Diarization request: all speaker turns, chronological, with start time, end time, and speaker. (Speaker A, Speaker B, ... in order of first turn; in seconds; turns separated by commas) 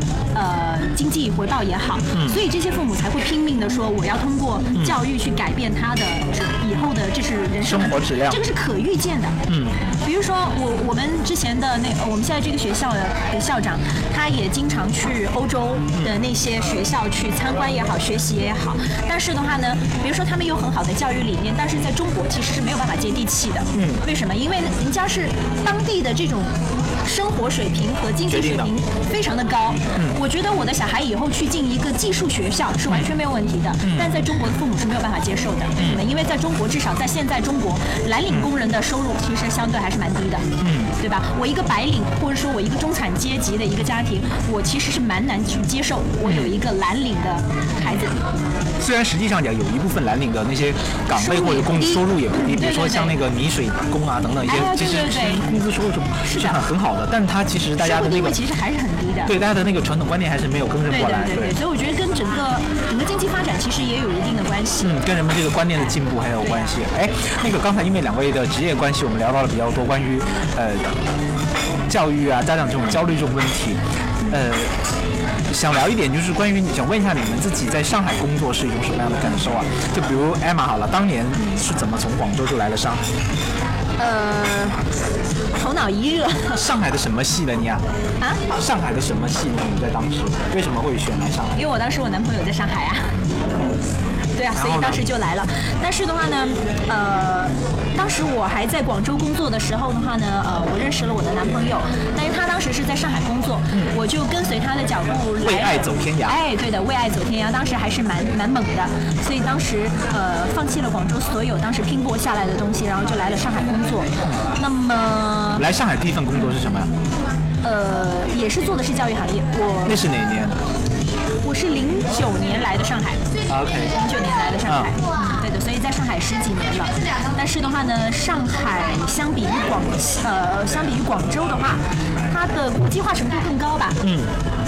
Speaker A: 0.3-9.4, Speaker B: 2.1-2.4, Speaker B: 4.7-5.0, Speaker B: 7.6-8.4, Speaker B: 9.5-9.8, Speaker A: 10.0-48.3, Speaker B: 23.7-24.0, Speaker B: 28.3-28.7, Speaker B: 33.8-34.1, Speaker B: 35.8-36.1, Speaker B: 40.6-40.9, Speaker B: 46.2-46.5, Speaker B: 48.8-58.4, Speaker A: 51.1-53.1, Speaker A: 54.4-55.4, Speaker A: 56.2-56.6, Speaker A: 57.8-59.3, Speaker B: 59.2-61.6, Speaker A: 60.9-65.0, Speaker B: 64.8-71.0, Speaker A: 66.4-66.8, Speaker B: 71.9-74.8, Speaker B: 75.5-83.0, Speaker A: 84.0-84.8, Speaker A: 85.5-86.6, Speaker B: 86.5-87.8, Speaker A: 88.2-88.4, Speaker B: 88.5-91.6, Speaker A: 91.5-93.2, Speaker A: 94.3-115.6, Speaker B: 94.5-95.0, Speaker B: 105.4-106.4, Speaker B: 115.5-116.9, Speaker A: 117.6-120.0, Speaker B: 119.8-120.6, Speaker A: 121.4-123.2, Speaker B: 123.5-124.0, Speaker A: 123.9-134.0, Speaker B: 124.7-124.9, Speaker B: 134.0-134.3